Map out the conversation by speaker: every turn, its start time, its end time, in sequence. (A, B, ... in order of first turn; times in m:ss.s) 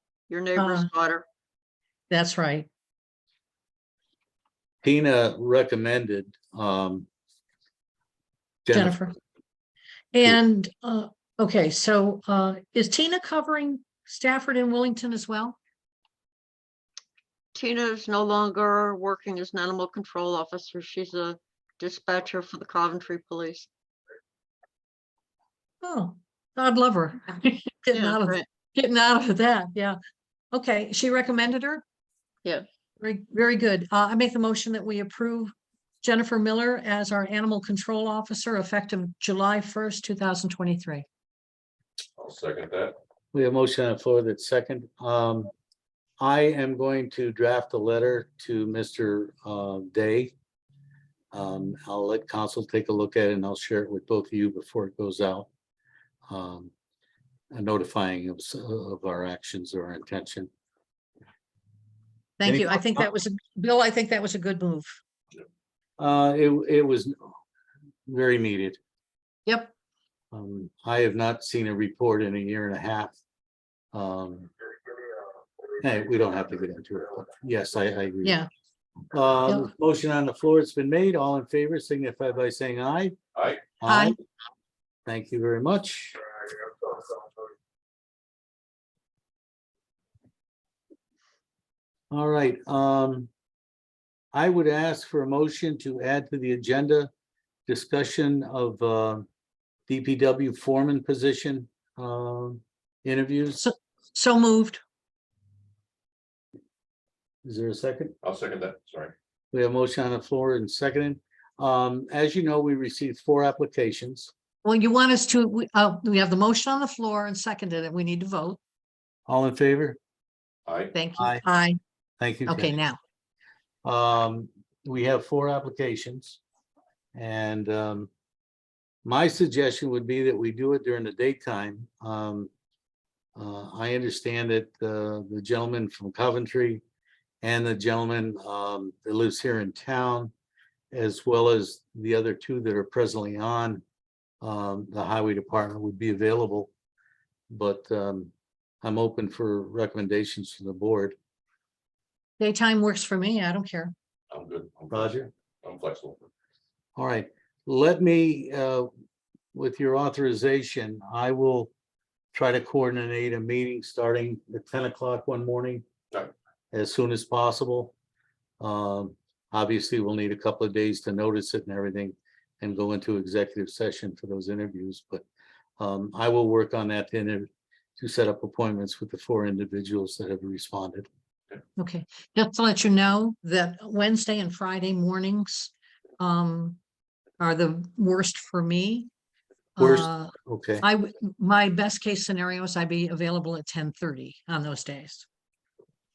0:00.3-0:01.2 A
0:00.6-0:00.9 B
0:02.1-0:02.7 B
0:04.8-0:07.1 C
0:08.7-0:09.2 C
0:08.7-0:09.1 B
0:10.1-0:15.6 B
0:17.5-0:23.7 A
0:25.8-0:30.0 B
0:27.9-0:28.4 A
0:30.5-0:31.8 B
0:33.0-0:41.0 B
0:42.2-0:43.0 D
0:43.3-0:45.5 C
0:46.2-0:50.3 C
0:51.3-0:55.5 C
0:56.3-0:56.7 C
0:57.5-1:00.5 C
1:02.4-1:05.0 B
1:02.4-1:03.1 C
1:06.0-1:07.2 C
1:08.1-1:08.8 C
1:09.5-1:09.7 B
1:10.3-1:13.2 C
1:13.9-1:14.5 C
1:15.8-1:18.4 C
1:18.2-1:18.5 B
1:19.1-1:23.2 C
1:23.4-1:23.8 D
1:23.7-1:24.2 C
1:23.8-1:24.2 B
1:25.0-1:26.2 C
1:32.1-1:33.3 C
1:34.3-1:37.1 C
1:37.7-1:39.2 C
1:39.9-1:43.6 C
1:43.6-1:44.8 B
1:47.4-1:48.1 C
1:48.2-1:49.1 D
1:49.5-1:54.3 C
1:54.6-1:58.6 B
1:59.3-2:00.0 C
2:00.7-2:01.0 D
2:00.9-2:01.8 B
2:01.1-2:01.4 C
2:02.2-2:02.8 C
2:02.4-2:03.0 B
2:03.8-2:06.4 C
2:07.1-2:08.1 C
2:09.0-2:12.5 C
2:13.4-2:16.8 C
2:17.4-2:20.3 C
2:20.9-2:23.8 C
2:24.4-2:26.7 C
2:27.5-2:28.3 C
2:28.8-2:31.2 C
2:32.4-2:33.9 B
2:34.3-2:36.2 D
2:34.9-2:35.3 C
2:37.0-2:38.9 C
2:39.5-2:41.7 C
2:42.3-2:45.8 C
2:46.7-2:47.9 C
2:48.6-2:55.2 C
2:55.8-3:01.1 C
3:01.8-3:06.8 B
3:07.4-3:09.1 B
3:09.8-3:15.2 B
3:09.8-3:10.8 C